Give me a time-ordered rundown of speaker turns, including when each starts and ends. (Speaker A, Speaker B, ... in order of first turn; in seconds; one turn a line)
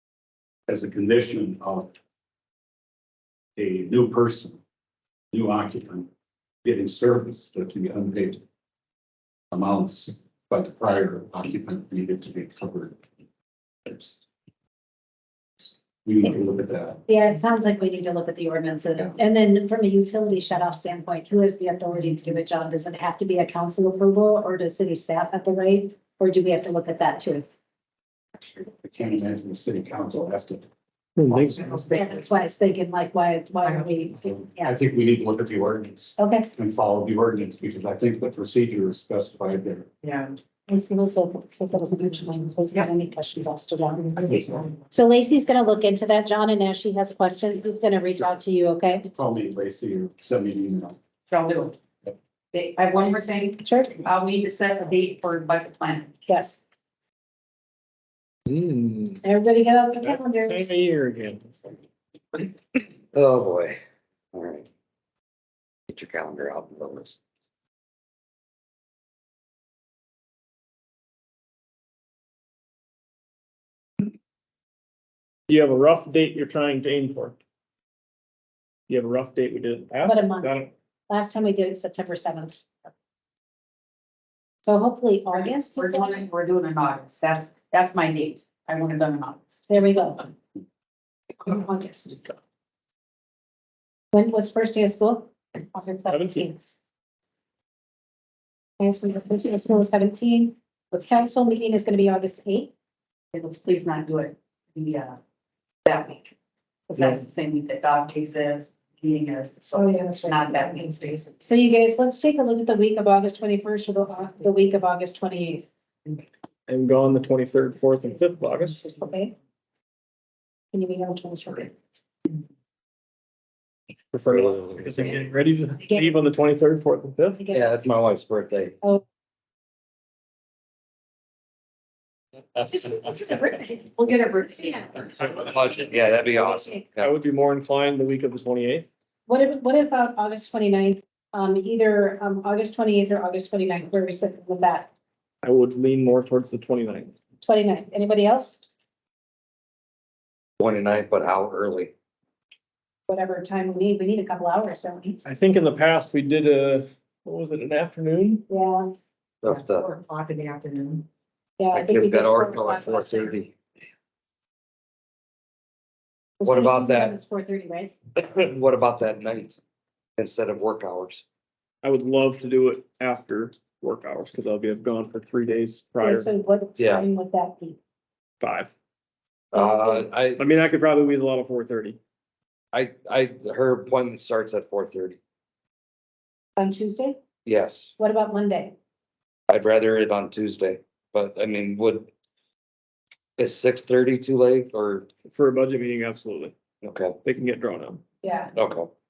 Speaker A: 0.7-1.9
Speaker A: 3.5-4.6
Speaker A: 5.3-6.1
Speaker A: 6.6-8.4
Speaker A: 9.5-13.0
Speaker A: 13.9-14.2
Speaker A: 16.0-17.0
Speaker B: 17.1-27.5
Speaker A: 28.4-30.6
Speaker C: 31.2-31.7
Speaker A: 31.3-31.9
Speaker D: 31.7-32.0
Speaker B: 31.9-34.7
Speaker D: 33.6-34.1
Speaker A: 34.5-39.9
Speaker B: 36.2-36.5
Speaker D: 40.0-40.4
Speaker B: 40.7-49.1
Speaker D: 44.2-44.6
Speaker A: 44.2-44.6
Speaker A: 49.1-51.0
Speaker D: 51.3-51.8
Speaker D: 52.5-56.1
Speaker B: 53.6-54.0
Speaker B: 56.2-56.6
Speaker C: 58.5-59.2
Speaker B: 59.2-60.7
Speaker C: 60.0-61.7
Speaker E: 63.1-63.8
Speaker E: 64.3-64.7
Speaker E: 65.9-67.2
Speaker C: 75.5-77.4
Speaker C: 78.9-80.7
Speaker B: 80.0-80.5
Speaker B: 81.1-82.6
Speaker B: 84.6-86.2
Speaker D: 85.4-89.6
Speaker B: 89.7-90.3
Speaker B: 91.4-92.3
Speaker B: 94.1-95.3
Speaker D: 95.7-96.7
Speaker C: 96.1-96.5
Speaker B: 98.8-102.7
Speaker D: 103.3-105.2
Speaker D: 105.8-106.3
Speaker D: 106.9-111.4
Speaker B: 109.7-110.7
Speaker B: 111.4-115.7
Speaker C: 116.7-118.8
Speaker B: 118.7-119.3
Speaker B: 120.7-121.7
Speaker C: 124.1-127.4
Speaker E: 124.3-125.2
Speaker B: 125.8-126.1
Speaker B: 127.4-127.7
Speaker E: 127.5-128.8
Speaker B: 132.7-133.9
Speaker D: 133.8-135.3
Speaker E: 135.2-137.1
Speaker C: 137.0-138.9
Speaker B: 139.3-144.9
Speaker C: 145.4-147.1
Speaker B: 147.4-148.6
Speaker E: 150.6-151.9
Speaker B: 153.1-155.2
Speaker C: 155.2-158.4
Speaker B: 158.5-158.9
Speaker E: 159.4-159.9
Speaker D: 159.4-161.1
Speaker B: 161.6-163.3
Speaker E: 161.7-163.5
Speaker B: 166.4-167.9
Speaker E: 166.4-167.2
Speaker E: 168.2-169.6
Speaker E: 170.2-171.2
Speaker C: 171.8-176.3
Speaker B: 176.0-177.8
Speaker E: 176.8-177.1
Speaker C: 178.4-178.7
Speaker E: 179.5-180.4
Speaker B: 179.5-180.1
Speaker C: 180.4-182.0
Speaker E: 182.7-185.2
Speaker B: 186.6-187.2
Speaker E: 187.4-187.9
Speaker B: 188.0-188.8
Speaker E: 189.5-192.1
Speaker E: 193.4-195.1
Speaker C: 195.3-196.5
Speaker E: 196.8-197.2
Speaker C: 197.2-198.0
Speaker B: 198.2-198.5
Speaker E: 198.5-198.9